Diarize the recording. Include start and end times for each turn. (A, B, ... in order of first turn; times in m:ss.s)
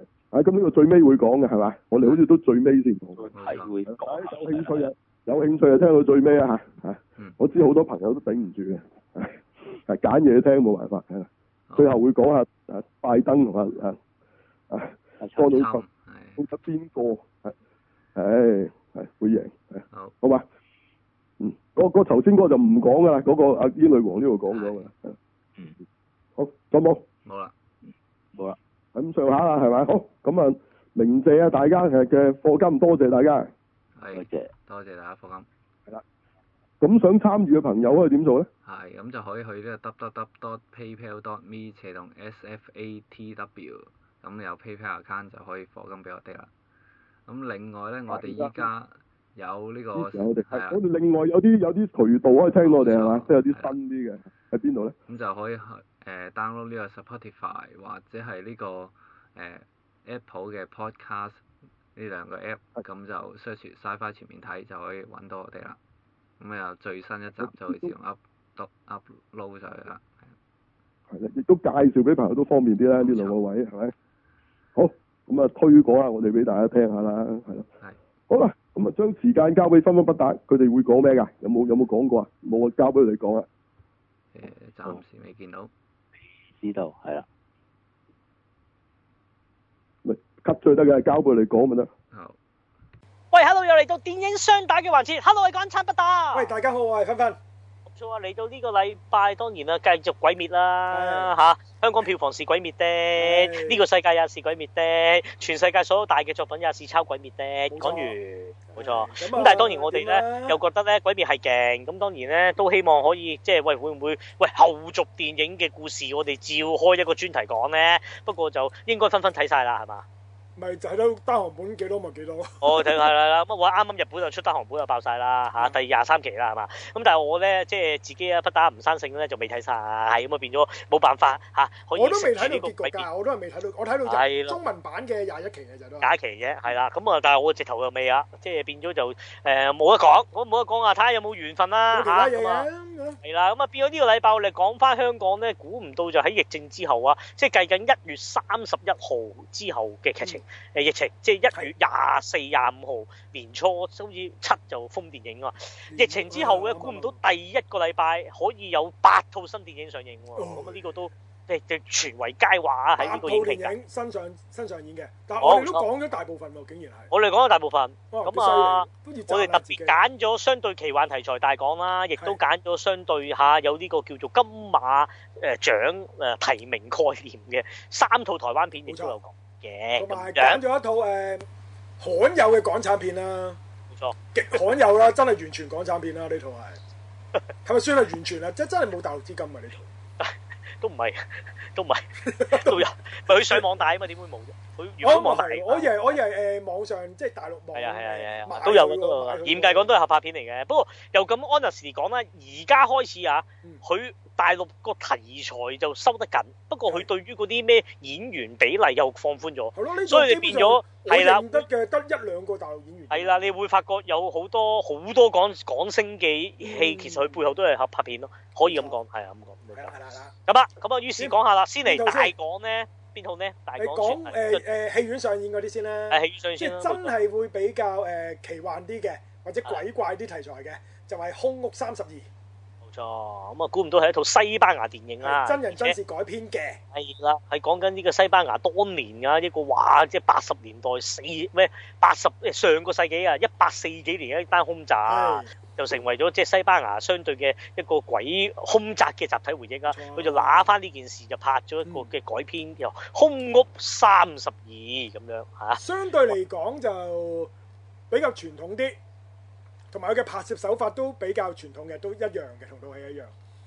0:00.3-0:03.2 A
0:03.2-0:04.9 B
0:03.3-0:03.7 C
0:03.9-0:14.0 A
0:11.7-0:11.9 C
0:14.7-0:15.8 A
0:15.2-0:15.5 B
0:15.4-0:16.4 C
0:16.4-0:17.5 A
0:18.2-0:20.4 A
0:21.4-0:25.2 A
0:24.5-0:24.9 C
0:26.4-0:27.0 A
0:27.2-0:27.5 C
0:27.9-0:28.6 B
0:28.9-0:33.5 A
0:34.0-0:35.5 C
0:34.1-0:34.5 B
0:36.8-0:38.5 A
0:38.6-0:46.5 C
0:47.2-0:50.8 C
0:48.1-0:48.7 A
0:49.9-0:54.9 A
0:52.6-0:53.7 C
0:55.1-1:01.4 C
1:01.9-1:05.8 C
1:06.4-1:10.3 C
1:07.4-1:07.9 A
1:11.1-1:13.9 A
1:13.0-1:13.4 C
1:14.8-1:17.6 A
1:18.3-1:23.5 A
1:24.3-1:25.7 C
1:26.5-1:27.2 B
1:30.0-1:31.9 A
1:32.1-1:32.4 C
1:33.3-1:36.5 D
1:36.3-1:37.4 E
1:37.9-2:00.0 D
1:40.9-1:41.3 E
1:43.2-1:43.8 E
1:47.7-1:48.1 E
1:48.7-1:50.6 E
2:00.6-2:03.1 E
2:02.6-2:13.1 D
2:12.0-2:16.1 E
2:14.0-2:14.6 D
2:16.0-2:22.7 D
2:21.9-2:23.2 E
2:23.2-2:43.7 D
2:35.9-2:37.2 E
2:40.3-2:40.8 E
2:43.0-2:47.1 E
2:45.4-2:45.8 D
2:47.1-3:00.6 D
2:48.1-2:50.0 E
2:58.9-2:59.1 E
3:00.0-3:01.4 E
3:02.0-3:03.6 E
3:04.3-3:06.8 E
3:07.6-3:09.8 E
3:10.2-3:16.1 D
3:12.2-3:13.6 E
3:15.0-3:19.9 E
3:17.7-3:31.6 D
3:29.7-3:33.5 E
3:33.1-3:39.9 D
3:36.6-3:37.4 E
3:38.7-3:38.9 E
3:39.8-3:40.3 E
3:40.5-3:44.6 D
3:41.2-3:42.3 E
3:43.8-3:52.3 E
3:46.1-3:47.1 D
3:52.8-3:55.9 D
3:55.2-3:56.8 E
3:56.9-4:16.3 D
4:05.1-4:05.5 E
4:09.9-4:10.7 E
4:15.8-4:17.5 E
4:18.1-4:19.0 E
4:19.9-4:23.3 E